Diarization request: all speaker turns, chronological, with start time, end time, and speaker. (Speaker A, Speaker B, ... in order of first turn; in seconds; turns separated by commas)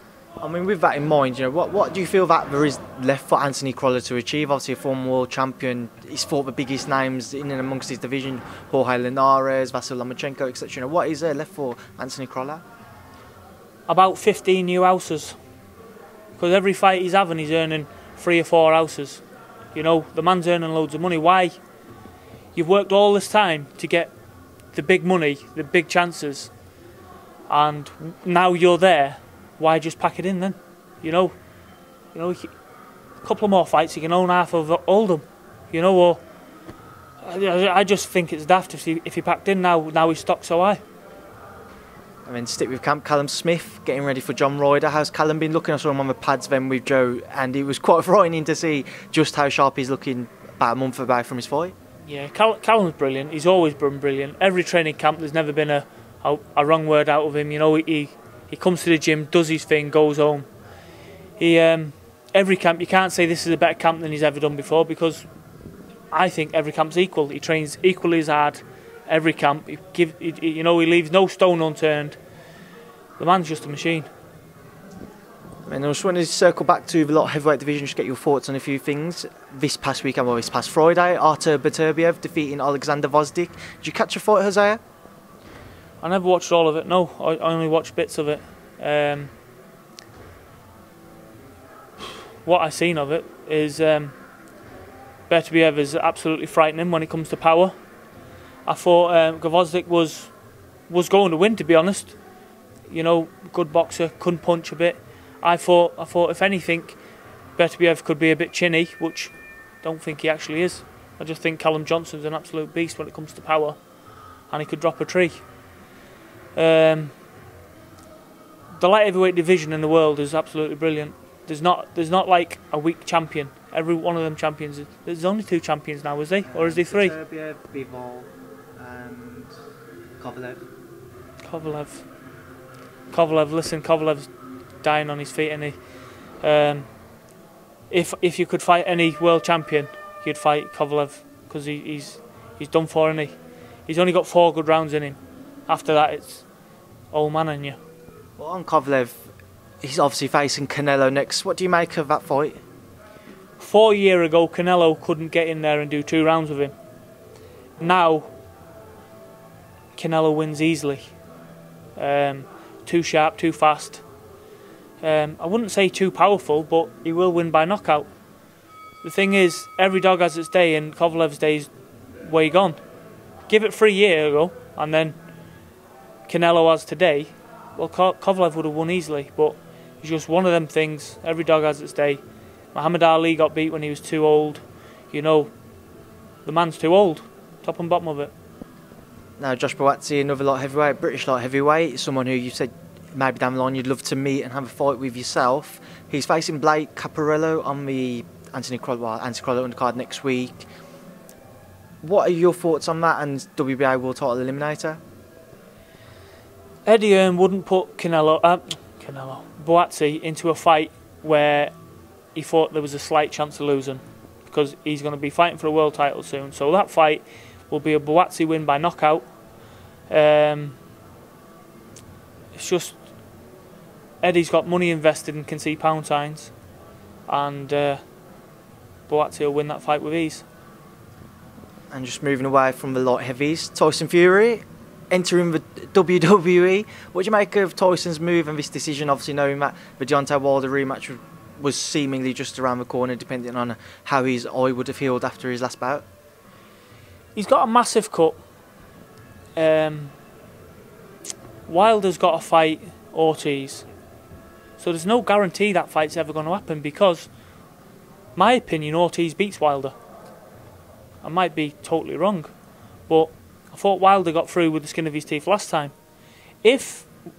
Speaker A: 0.4-12.6, Speaker B: 13.9-15.4, Speaker B: 16.3-19.2, Speaker B: 19.7-21.6, Speaker B: 22.5-24.1, Speaker B: 24.7-26.5, Speaker B: 27.5-31.4, Speaker B: 32.1-32.5, Speaker B: 33.2-36.2, Speaker B: 37.2-40.8, Speaker A: 42.2-51.7, Speaker B: 52.0-60.5, Speaker B: 61.4-65.3, Speaker B: 66.1-72.2, Speaker B: 73.2-74.1, Speaker A: 75.7-84.8, Speaker B: 86.0-89.3, Speaker B: 92.4-94.1, Speaker B: 95.3-97.7, Speaker B: 98.7-100.3, Speaker B: 100.9-102.2, Speaker B: 102.9-107.0, Speaker B: 107.6-113.8, Speaker B: 114.5-115.4, Speaker B: 116.5-117.1, Speaker B: 118.8-127.1, Speaker A: 126.5-129.5, Speaker A: 130.2-130.6, Speaker B: 131.4-132.0, Speaker B: 133.1-134.3, Speaker B: 134.8-135.8, Speaker B: 136.4-136.9, Speaker B: 137.9-143.3, Speaker B: 143.9-146.4, Speaker B: 147.1-147.8, Speaker A: 148.4-149.2, Speaker A: 149.8-152.6, Speaker B: 153.6-156.7, Speaker B: 157.8-158.3, Speaker B: 159.9-161.1, Speaker B: 162.0-164.0, Speaker B: 165.0-168.1, Speaker B: 169.0-171.7, Speaker B: 172.2-172.8, Speaker B: 173.5-175.2, Speaker B: 176.3-182.2, Speaker B: 182.7-185.5, Speaker B: 186.4-188.3, Speaker A: 189.4-200.7, Speaker A: 202.0-205.0, Speaker B: 206.8-211.7, Speaker B: 212.3-219.2, Speaker B: 220.1-220.8, Speaker B: 222.5-223.0, Speaker B: 224.2-226.5, Speaker B: 227.3-228.0, Speaker B: 229.1-230.4, Speaker A: 231.9-246.1, Speaker B: 247.3-248.4, Speaker B: 249.6-250.1, Speaker B: 251.7-253.8, Speaker B: 254.8-257.3, Speaker B: 258.4-259.9, Speaker B: 261.2-262.5, Speaker B: 263.1-265.9, Speaker B: 266.6-267.1